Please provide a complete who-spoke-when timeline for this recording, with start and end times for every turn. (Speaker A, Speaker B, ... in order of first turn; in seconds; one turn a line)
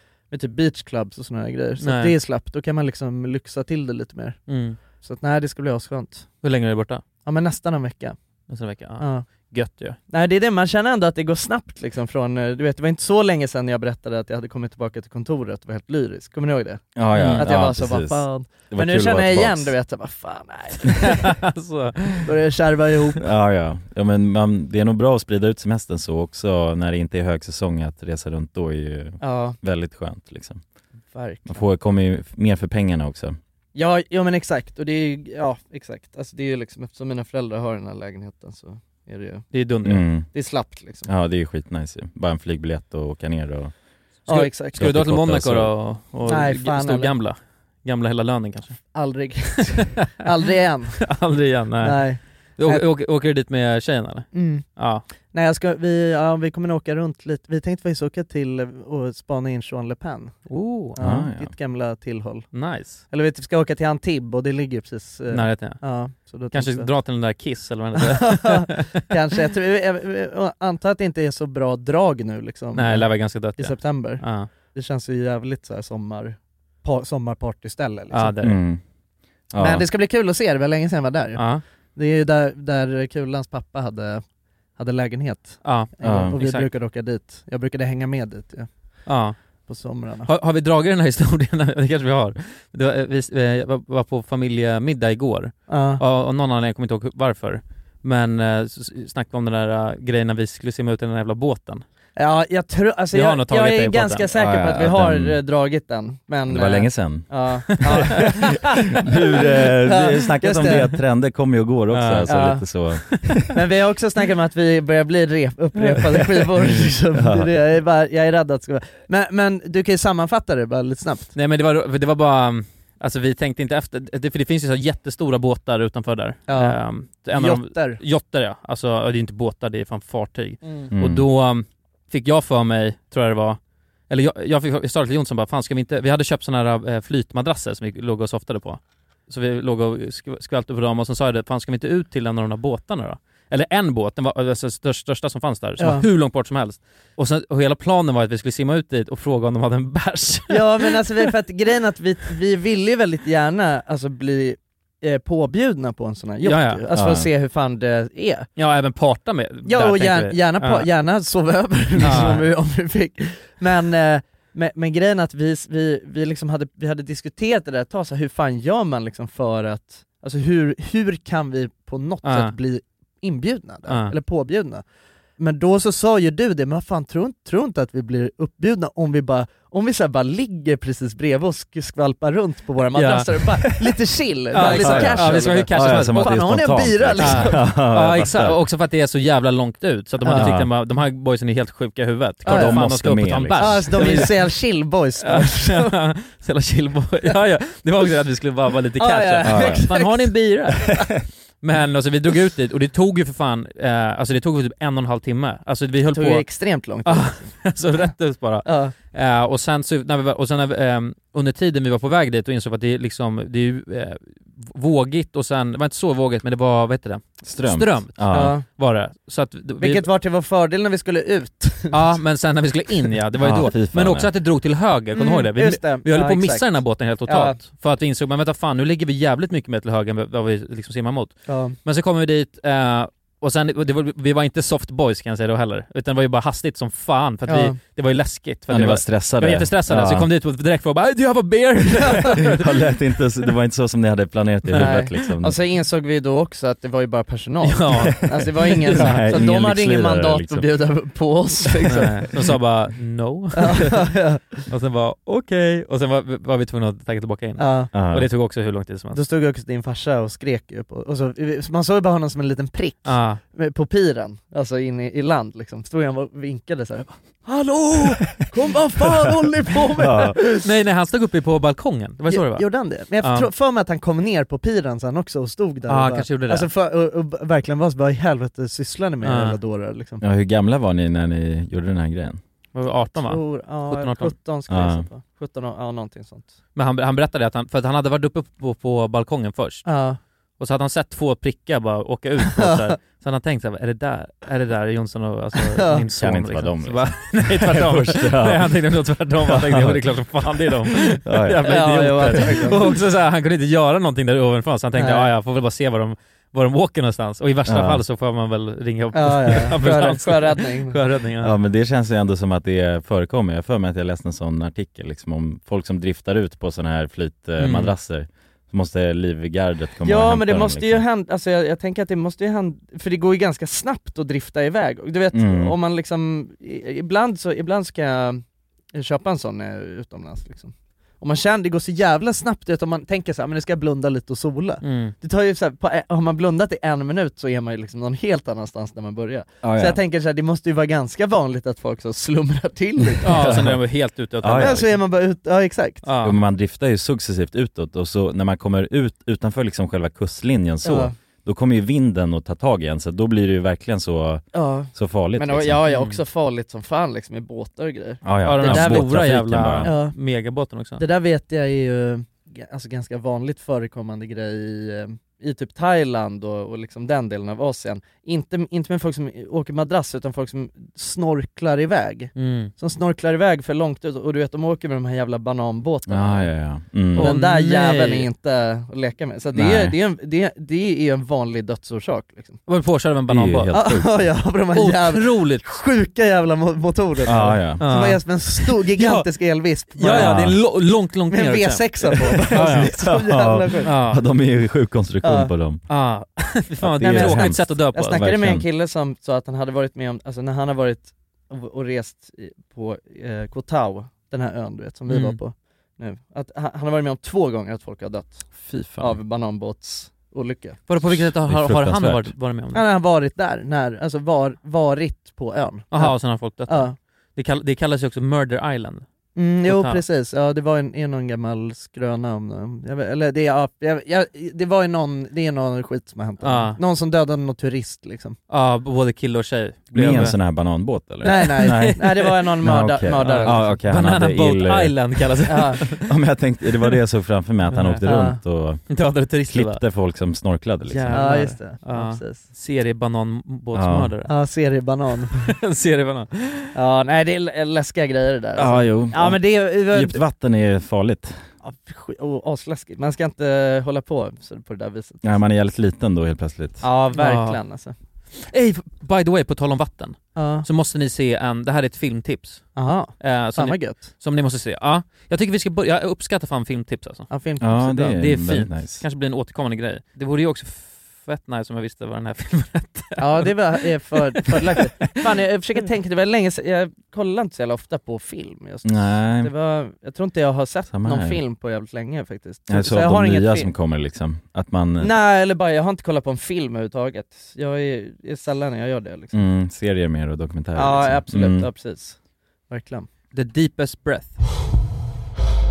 Speaker A: 0.3-6.3
Speaker B: 1.8-2.1
Speaker B: 4.5-4.8
Speaker B: 6.4-7.0
Speaker A: 7.2-8.2
Speaker B: 8.5-10.0
Speaker A: 9.0-9.3
Speaker A: 10.1-21.4
Speaker C: 17.0-19.7
Speaker B: 17.1-17.5
Speaker B: 21.0-22.3
Speaker A: 22.2-23.2
Speaker C: 23.2-30.6
Speaker A: 29.2-29.6
Speaker A: 31.1-31.6
Speaker C: 31.5-33.4
Speaker A: 33.8-39.5
Speaker B: 39.5-40.0
Speaker C: 39.9-40.3
Speaker A: 40.3-41.1
Speaker C: 41.1-43.7
Speaker B: 44.3-48.8
Speaker A: 44.3-44.8
Speaker C: 44.8-45.7
Speaker A: 46.3-47.1
Speaker A: 48.9-51.1
Speaker B: 51.0-55.0
Speaker A: 51.8-52.9
Speaker A: 54.3-54.7
Speaker A: 55.3-62.5
Speaker B: 60.5-61.0
Speaker C: 61.0-61.5
Speaker B: 62.5-63.0
Speaker A: 63.1-66.9
Speaker B: 65.3-65.8
Speaker B: 66.5-69.0
Speaker A: 68.0-78.4
Speaker B: 72.8-74.5
Speaker B: 78.1-78.6
Speaker C: 78.4-78.8
Speaker C: 79.5-79.9
Speaker A: 79.6-84.2
Speaker B: 81.4-81.6
Speaker A: 84.8-88.7
Speaker B: 85.6-86.7
Speaker C: 86.0-86.4
Speaker B: 89.1-89.4
Speaker A: 89.7-90.3
Speaker B: 90.3-101.8
Speaker A: 95.7-96.0
Speaker A: 102.2-111.0
Speaker B: 103.1-104.2
Speaker C: 104.3-105.4
Speaker C: 106.5-113.5
Speaker B: 111.9-112.4
Speaker A: 112.3-112.7
Speaker A: 113.4-121.3
Speaker C: 116.7-117.5
Speaker B: 121.3-151.0
Speaker A: 126.5-128.0
Speaker A: 130.6-130.9
Speaker C: 130.9-131.2
Speaker A: 145.8-146.1
Speaker A: 150.5-158.5
Speaker B: 156.4-156.8
Speaker C: 156.9-157.3
Speaker B: 158.6-160.9
Speaker A: 159.7-174.8
Speaker B: 162.0-162.5
Speaker B: 172.2-172.5
Speaker B: 173.9-174.1
Speaker A: 175.4-187.7
Speaker B: 183.0-183.8
Speaker B: 184.5-186.4
Speaker C: 184.6-188.6
Speaker B: 187.2-194.4
Speaker A: 190.2-190.5
Speaker C: 190.3-190.7
Speaker C: 192.4-194.3
Speaker A: 192.5-192.9
Speaker A: 193.6-196.0
Speaker B: 195.2-201.0
Speaker A: 199.0-200.3
Speaker C: 199.4-199.9
Speaker B: 201.6-206.5
Speaker A: 206.1-207.7
Speaker B: 207.1-220.1
Speaker A: 208.7-208.9
Speaker C: 217.4-218.6
Speaker A: 218.3-218.7
Speaker A: 219.8-222.2
Speaker B: 221.9-242.7
Speaker C: 223.4-224.3
Speaker A: 225.1-227.6
Speaker A: 231.5-231.8
Speaker A: 237.5-237.8
Speaker C: 238.7-240.3
Speaker C: 242.2-245.6
Speaker B: 244.7-245.0
Speaker A: 244.7-252.3
Speaker B: 247.6-249.2
Speaker C: 248.9-250.7
Speaker B: 251.9-254.1
Speaker A: 253.6-254.7
Speaker B: 254.7-259.2
Speaker A: 257.6-257.9
Speaker C: 257.9-258.3
Speaker A: 259.1-270.7
Speaker B: 263.1-263.4
Speaker C: 269.9-270.4
Speaker B: 270.6-272.7
Speaker A: 272.3-280.2
Speaker B: 273.2-273.5
Speaker B: 275.9-276.7
Speaker B: 279.2-279.6
Speaker C: 280.2-282.4
Speaker B: 282.8-284.3
Speaker A: 283.1-286.5
Speaker C: 284.7-285.1
Speaker B: 286.8-289.9
Speaker A: 289.9-290.2
Speaker B: 290.6-311.6
Speaker A: 292.5-292.9
Speaker A: 295.6-296.1
Speaker C: 296.1-298.8
Speaker C: 299.5-300.1
Speaker C: 301.2-301.8
Speaker A: 301.6-303.0
Speaker A: 305.0-305.3
Speaker C: 307.7-308.0
Speaker A: 309.1-311.0
Speaker C: 311.4-321.0
Speaker B: 317.6-317.9
Speaker A: 320.0-328.4
Speaker C: 325.3-325.7
Speaker A: 328.9-343.7
Speaker B: 334.8-335.1
Speaker C: 339.6-340.0
Speaker C: 343.2-343.8
Speaker B: 343.2-344.9
Speaker C: 344.4-344.9
Speaker A: 344.6-346.1
Speaker B: 346.0-346.4
Speaker C: 346.2-355.8
Speaker A: 350.8-351.1
Speaker A: 354.5-359.1
Speaker B: 355.9-356.2
Speaker C: 358.2-359.9
Speaker B: 358.4-361.0
Speaker A: 359.8-360.2
Speaker A: 361.0-376.5
Speaker B: 372.4-372.7
Speaker C: 376.1-377.3
Speaker A: 377.1-382.6
Speaker B: 377.2-378.3
Speaker C: 379.5-379.9
Speaker B: 382.7-383.8
Speaker C: 383.3-384.2
Speaker A: 383.7-390.5
Speaker B: 384.8-385.6
Speaker C: 387.2-387.8
Speaker B: 387.8-389.3
Speaker B: 389.9-392.9
Speaker C: 390.1-390.6
Speaker A: 391.3-393.9
Speaker C: 392.5-395.8
Speaker B: 393.8-394.2
Speaker A: 395.2-395.5
Speaker B: 395.9-398.2
Speaker C: 396.8-398.6
Speaker A: 397.0-410.8
Speaker B: 405.1-405.4
Speaker C: 408.6-409.2
Speaker B: 410.9-412.8
Speaker C: 411.0-412.3
Speaker A: 412.7-417.0
Speaker B: 415.9-419.1
Speaker A: 419.4-428.4
Speaker B: 419.7-420.0
Speaker B: 426.4-426.8
Speaker B: 428.5-430.4
Speaker C: 429.9-435.0
Speaker B: 431.2-432.3
Speaker A: 431.2-433.8
Speaker B: 433.2-436.1
Speaker A: 435.5-435.9
Speaker C: 436.0-441.4
Speaker B: 437.7-438.0
Speaker A: 438.0-438.4
Speaker B: 438.9-439.8
Speaker B: 440.9-444.3
Speaker A: 441.1-442.4
Speaker C: 443.7-444.1
Speaker A: 444.3-445.4
Speaker B: 445.5-446.7
Speaker A: 446.8-450.2
Speaker C: 448.6-451.4
Speaker A: 451.6-455.4
Speaker C: 455.2-456.8
Speaker A: 456.8-457.9
Speaker B: 457.1-457.6
Speaker B: 458.3-467.3
Speaker A: 460.4-460.7
Speaker A: 462.8-464.1
Speaker A: 467.3-468.2
Speaker C: 467.6-469.0
Speaker B: 468.1-475.2
Speaker A: 473.2-483.7
Speaker C: 478.9-479.5
Speaker C: 480.9-481.4
Speaker C: 482.7-485.1
Speaker A: 485.0-489.4
Speaker C: 489.3-491.7
Speaker A: 490.8-492.2
Speaker A: 492.7-493.1
Speaker B: 493.3-494.4